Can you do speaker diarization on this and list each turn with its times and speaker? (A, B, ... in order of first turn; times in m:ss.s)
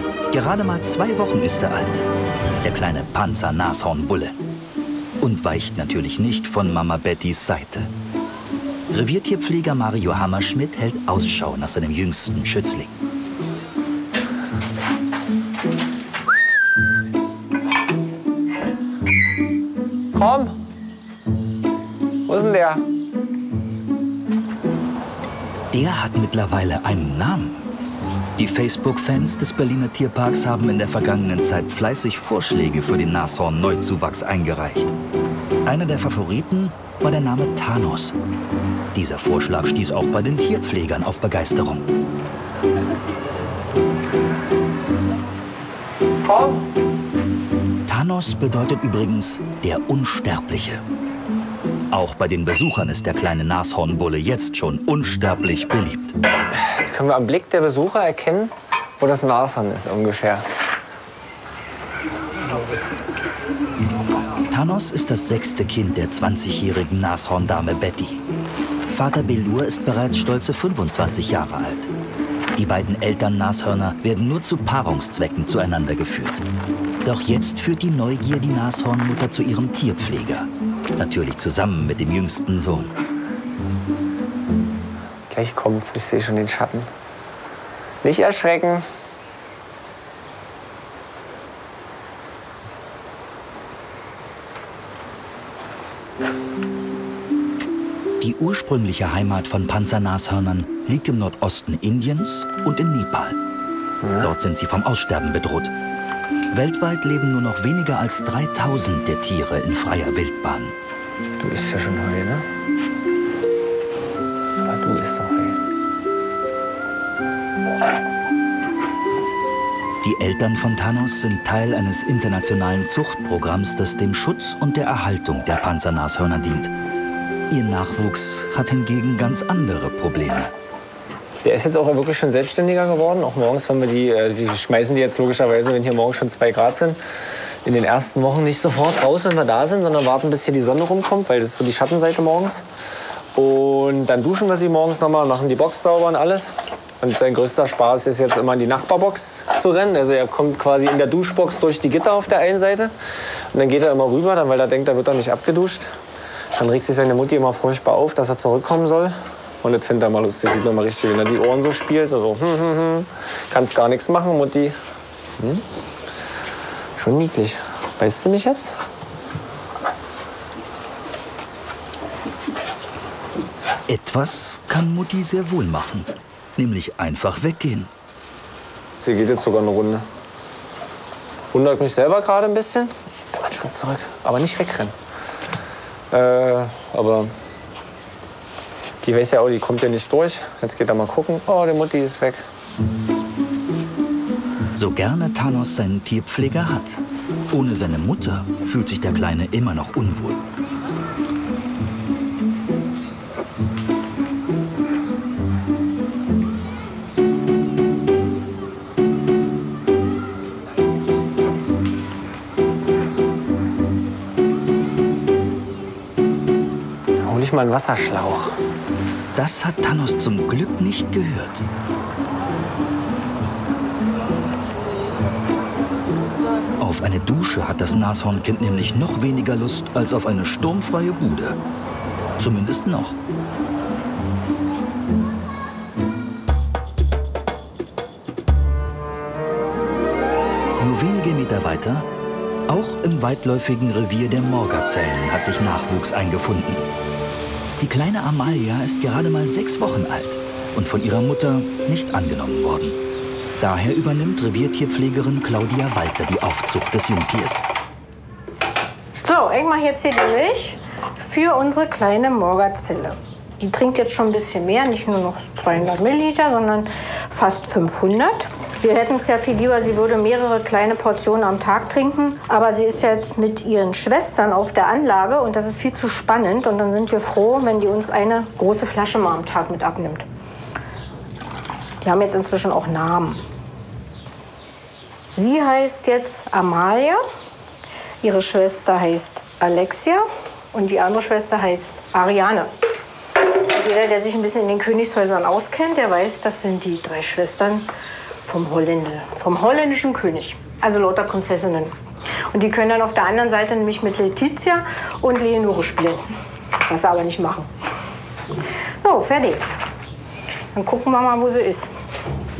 0:00.3-0:02.0 A
0:02.6-0:04.4 A
0:05.2-0:07.9 A
0:08.9-0:12.9 A
0:20.2-0:20.6 B
0:22.3-0:22.8 B
0:25.7-0:27.6 A
0:28.4-0:35.0 A
0:35.6-0:38.2 A
0:38.9-0:41.9 A
0:46.2-0:46.6 B
0:47.9-0:50.8 A
0:51.9-0:56.2 A
0:56.5-1:00.4 B
1:04.5-1:08.2 A
1:08.9-1:11.9 A
1:12.6-1:16.4 A
1:17.0-1:22.9 A
1:25.3-1:26.9 B
1:28.0-1:28.8 B
1:38.2-1:43.4 A
1:44.0-1:44.3 B
1:44.2-1:45.7 A
1:46.5-1:50.7 A
1:51.4-1:52.4 B
1:54.6-1:55.6 B
2:00.0-2:06.7 A
2:07.5-2:10.5 A
2:11.4-2:17.0 B
2:17.6-2:22.6 B
2:23.3-2:32.9 B
2:33.5-2:36.0 B
2:36.5-2:44.8 B
2:45.4-2:45.6 B
2:47.0-2:48.7 B
2:53.9-2:57.9 A
2:59.0-3:00.0 B
3:01.5-3:05.0 B
3:06.1-3:07.3 B
3:09.0-3:12.4 B
3:14.8-3:20.6 A
3:37.2-3:38.6 B
3:39.3-3:41.6 A
3:46.8-3:51.6 A
3:52.4-3:53.2 A
4:00.8-4:02.1 A
4:02.7-4:06.9 A
4:07.8-4:13.0 A
4:13.6-4:17.6 A
4:19.2-4:40.2 C
4:42.0-4:43.4 C
4:45.3-4:47.2 C
4:48.2-4:52.7 C
4:53.7-4:57.9 C
4:58.5-5:01.9 C
5:02.5-5:06.3 C
5:06.9-5:07.7 C
5:09.0-5:09.7 C
5:10.7-5:11.9 C